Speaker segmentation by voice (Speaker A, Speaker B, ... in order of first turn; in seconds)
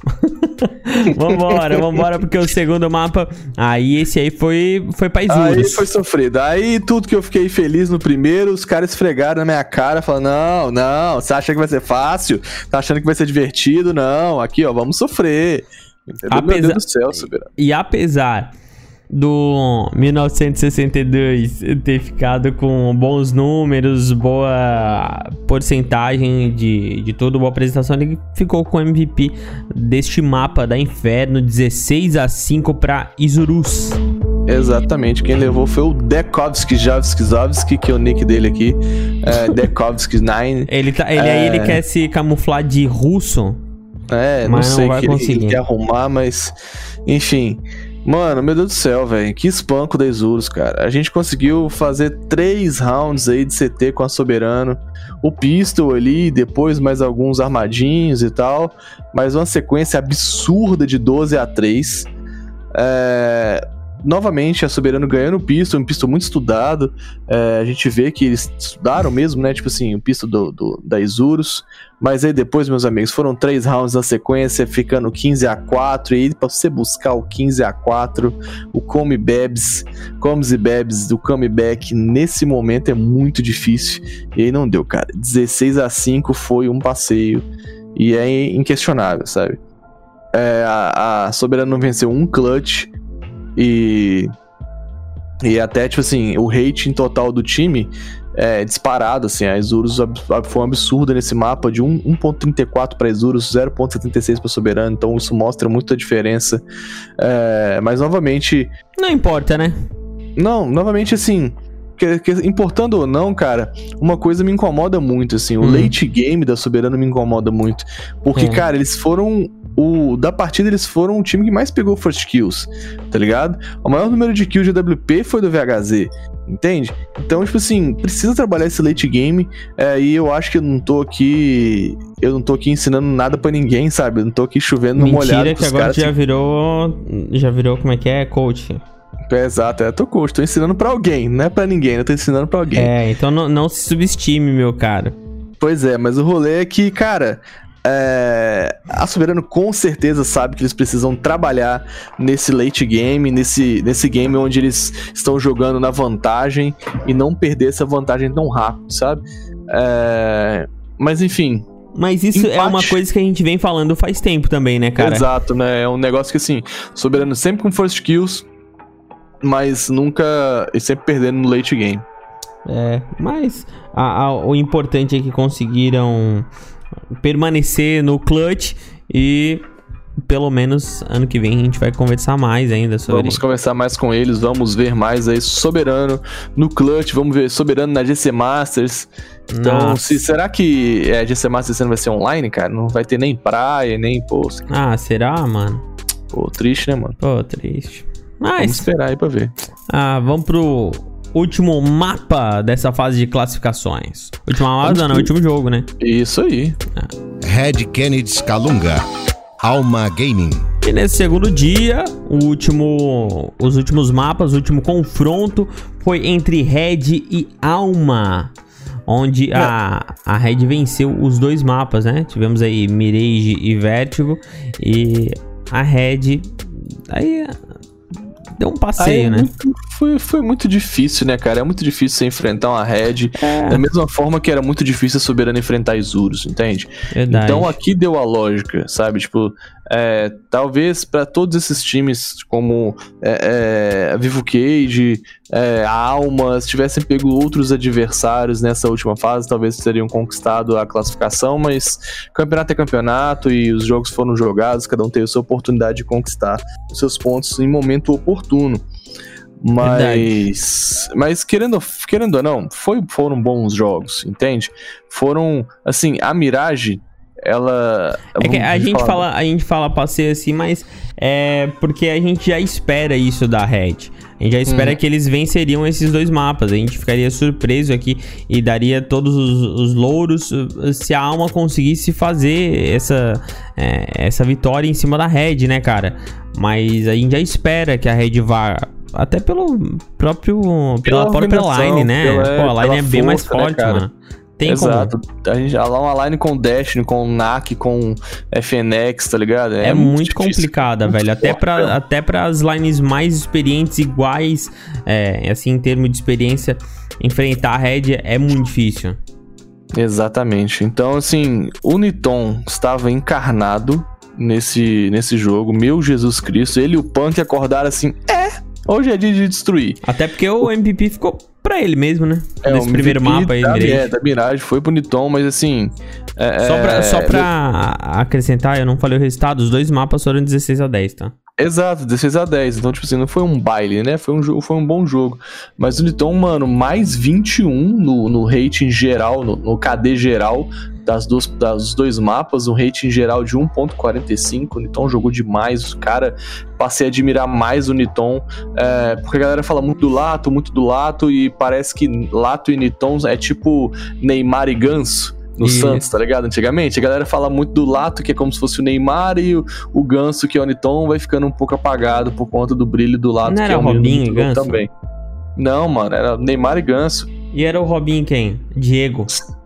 Speaker A: 0.2-5.9, 16.3-16.8, 17.6-18.5, 19.1-34.0, 40.7-43.6, 44.5-45.6, 109.0-109.8, 115.6-116.0, 118.4-118.6, 135.0-138.8, 142.7-145.2, 161.9-165.3, 172.7-176.5, 177.2-179.6, 180.3-183.4, 189.5-190.2, 194.7-195.8, 197.2-198.9, 199.9-205.9, 210.8-218.5, 219.1-227.6, 228.6-229.5, 233.4-233.8, 237.1-237.8, 259.8-260.3, 268.4-295.1, 299.8-309.2, 320.0-324.1, 326.6-331.3, 355.6-356.0, 363.5-364.8, 367.5-369.4
Speaker B: 1.1-2.0, 5.3-17.5, 34.5-41.8, 44.1-62.1, 62.7-89.6, 90.3-92.9, 93.6-94.3, 95.4-106.6, 107.2-108.7, 110.4-136.1, 139.3-142.9, 145.6-161.7, 162.3-163.0, 165.0-168.5, 169.4-172.1, 183.1-194.7, 196.3-197.2, 198.6-199.5, 204.8-205.3, 206.0-206.8, 229.0-258.8, 259.6-269.3, 274.7-275.0, 291.1-294.1, 294.6-302.0, 309.9-320.0, 322.6-327.5, 331.6-364.9, 365.6-367.3
Speaker C: 207.4-209.1, 209.6-210.7